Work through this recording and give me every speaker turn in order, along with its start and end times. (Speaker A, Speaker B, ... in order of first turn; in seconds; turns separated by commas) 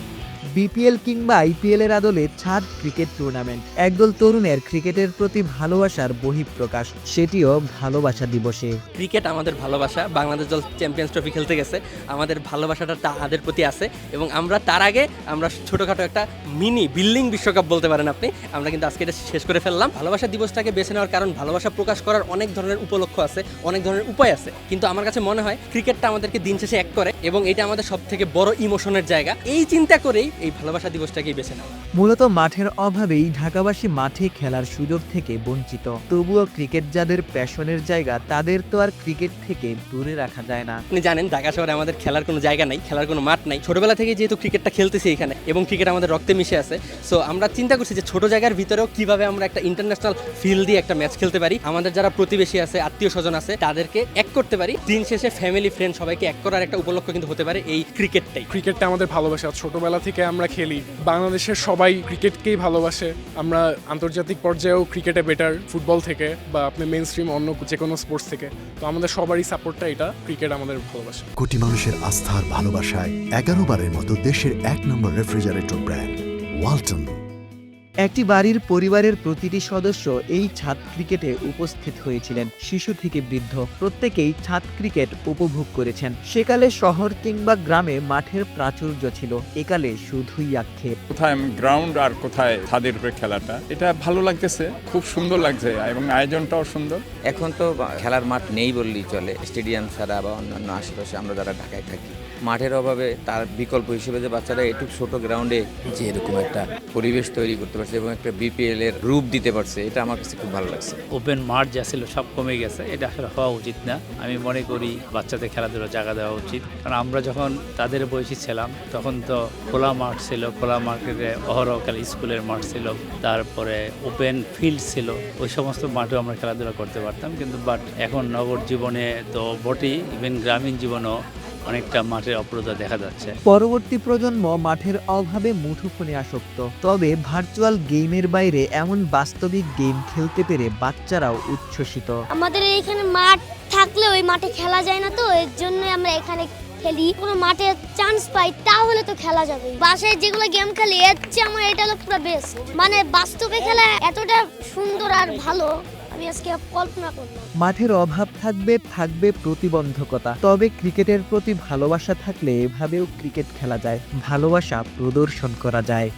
Speaker A: 0.5-8.8, Speaker B: 8.9-31.7, Speaker A: 32.0-40.8, Speaker B: 40.9-58.5, Speaker C: 58.5-71.2, Speaker D: 71.4-77.2, Speaker A: 78.0-90.9, Speaker E: 91.1-97.0, Speaker F: 97.2-111.0, Speaker G: 111.1-131.1, Speaker G: 131.7-133.3, Speaker A: 133.4-142.2, Speaker H: 142.3-157.5, Speaker A: 157.6-166.1